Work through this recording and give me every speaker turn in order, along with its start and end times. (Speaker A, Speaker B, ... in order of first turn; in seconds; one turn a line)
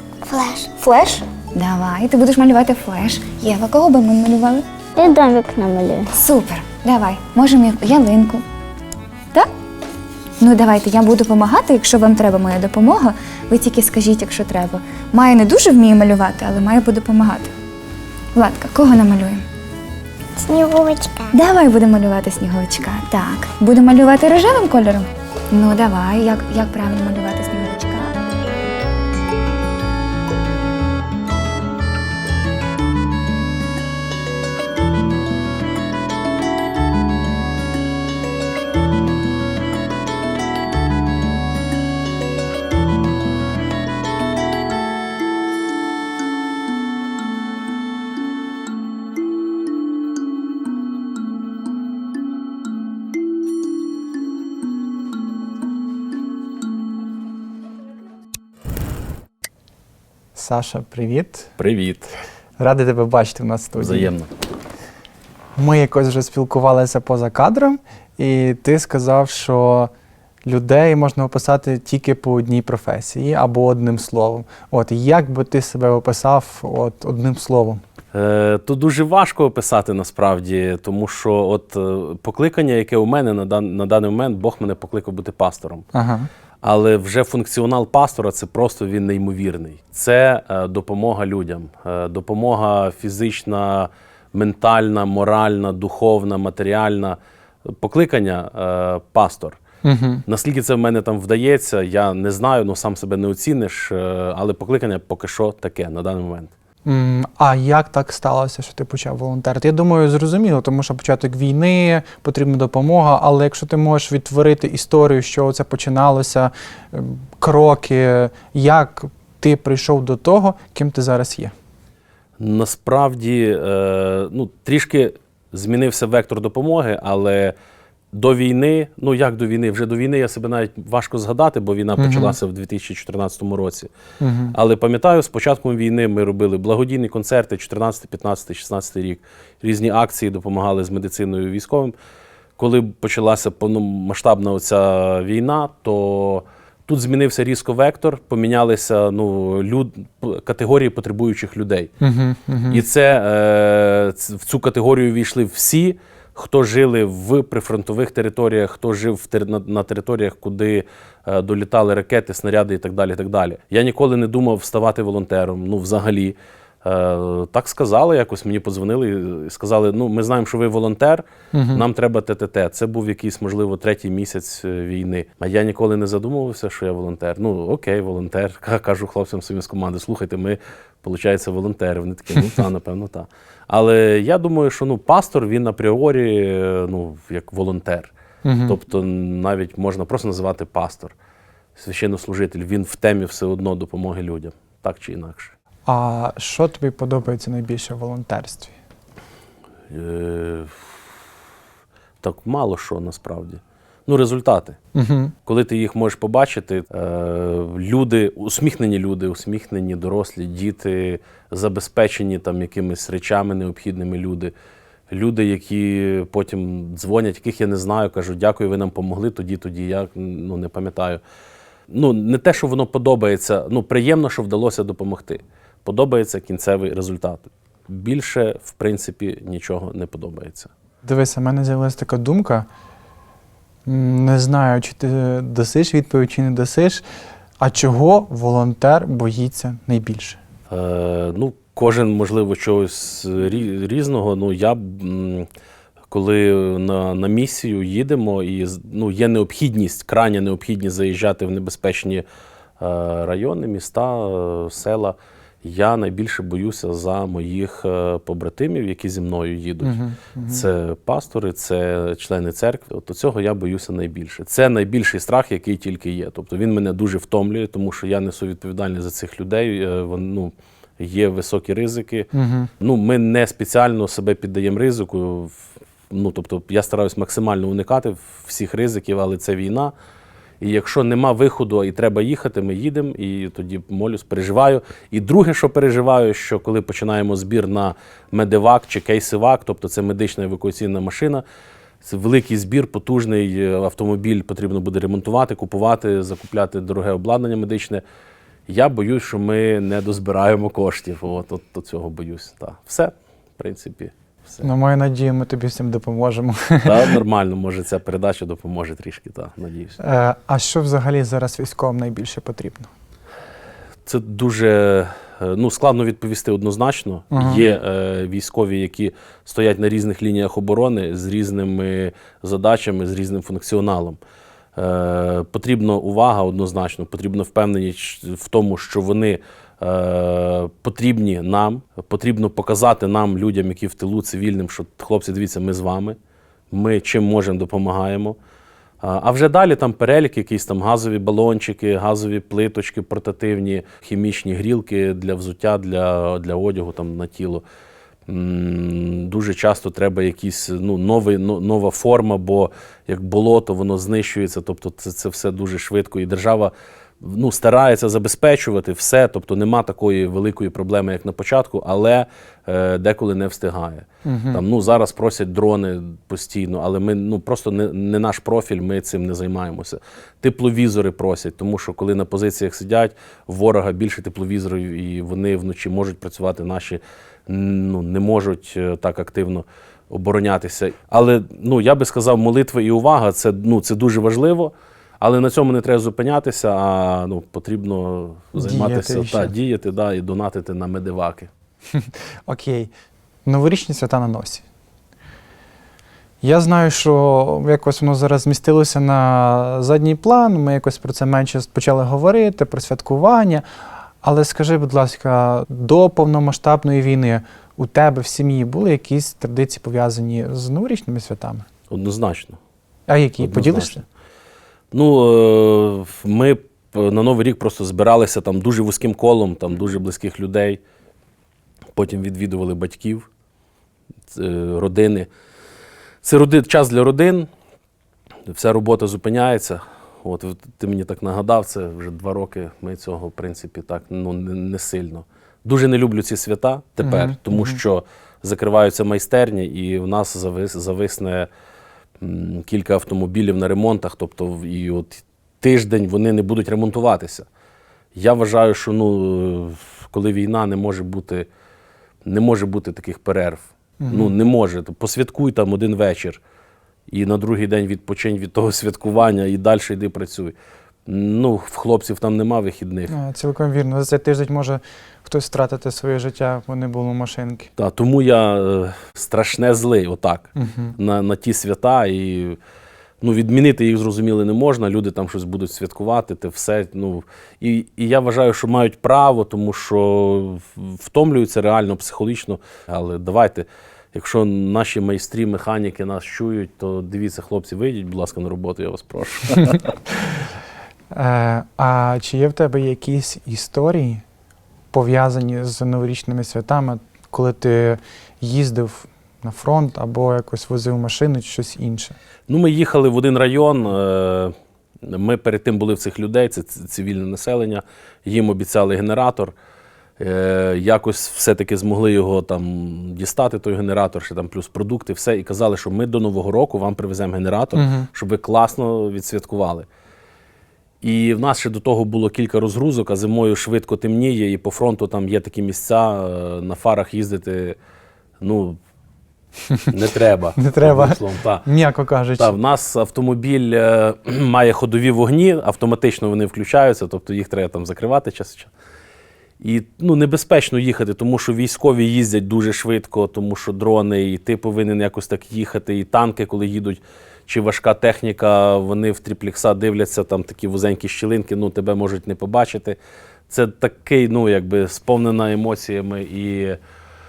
Speaker A: 0.2-0.7
Speaker B: 0.8-4.7
Speaker A: 5.0-6.1
Speaker B: 6.1-8.4
Speaker B: 10.4-17.5
Speaker B: 18.3-19.4
Speaker A: 20.4-21.3
Speaker B: 21.3-28.1
Speaker C: 60.4-61.5
Speaker D: 61.6-62.1
Speaker C: 62.6-64.1
Speaker D: 63.8-64.3
Speaker C: 65.5-69.9
Speaker C: 70.4-77.8
Speaker D: 78.1-85.8
Speaker C: 85.9-86.3
Speaker D: 86.6-99.6
Speaker C: 99.8-100.2
Speaker D: 100.2-106.5
Speaker C: 106.8-121.5
Speaker D: 122.4-127.5
Speaker D: 128.1-133.9
Speaker C: 132.0-132.4
Speaker C: 134.2-134.6
Speaker D: 134.5-141.9
Speaker D: 142.6-151.9
Speaker C: 152.0-152.8
Speaker D: 152.7-188.1
Speaker C: 171.5-171.8
Speaker C: 188.4-188.8
Speaker D: 188.7-191.1
Speaker D: 191.8-195.5
Speaker C: 195.8-198.7
Speaker D: 199.9-200.9
Speaker D: 202.2-204.8
Speaker C: 204.9-205.3
Speaker D: 205.4-214.5
Speaker D: 215.1-221.2
Speaker D: 221.9-230.7
Speaker C: 231.0-232.7
Speaker C: 233.8-237.0
Speaker C: 237.6-240.4
Speaker D: 240.7-245.5
Speaker D: 246.1-252.2
Speaker D: 252.8-279.9
Speaker C: 259.8-260.7
Speaker C: 272.3-272.7
Speaker D: 280.6-291.4
Speaker D: 292.0-298.0
Speaker D: 298.7-304.6
Speaker C: 304.6-307.2
Speaker D: 306.8-310.0
Speaker C: 310.0-312.9
Speaker D: 314.1-324.2
Speaker C: 317.3-317.6
Speaker D: 324.8-336.2
Speaker D: 336.7-338.4
Speaker D: 339.0-347.6
Speaker D: 348.3-391.5
Speaker C: 364.2-364.6
Speaker C: 388.6-389.5
Speaker C: 391.9-392.9
Speaker C: 393.4-394.6
Speaker C: 396.4-403.6
Speaker C: 404.2-411.6
Speaker D: 411.9-412.6
Speaker C: 413.1-414.0
Speaker D: 413.4-414.0
Speaker D: 414.9-420.8
Speaker D: 421.9-423.3
Speaker D: 424.3-425.3
Speaker D: 426.2-427.5
Speaker D: 428.5-441.5
Speaker C: 437.0-437.8
Speaker D: 442.2-447.5
Speaker D: 448.1-451.5
Speaker D: 452.2-456.4
Speaker C: 454.0-454.3
Speaker D: 457.1-460.5
Speaker D: 461.1-463.1
Speaker C: 463.1-467.7
Speaker D: 467.8-472.6
Speaker C: 470.6-470.9
Speaker D: 473.2-489.9
Speaker C: 491.1-494.2
Speaker C: 494.9-502.2
Speaker D: 502.5-509.5
Speaker D: 510.2-519.9
Speaker C: 517.7-518.1
Speaker D: 521.0-527.8
Speaker D: 528.4-528.8
Speaker D: 529.9-531.6
Speaker C: 530.6-532.6
Speaker D: 532.4-538.7
Speaker D: 539.6-553.0
Speaker D: 553.5-556.8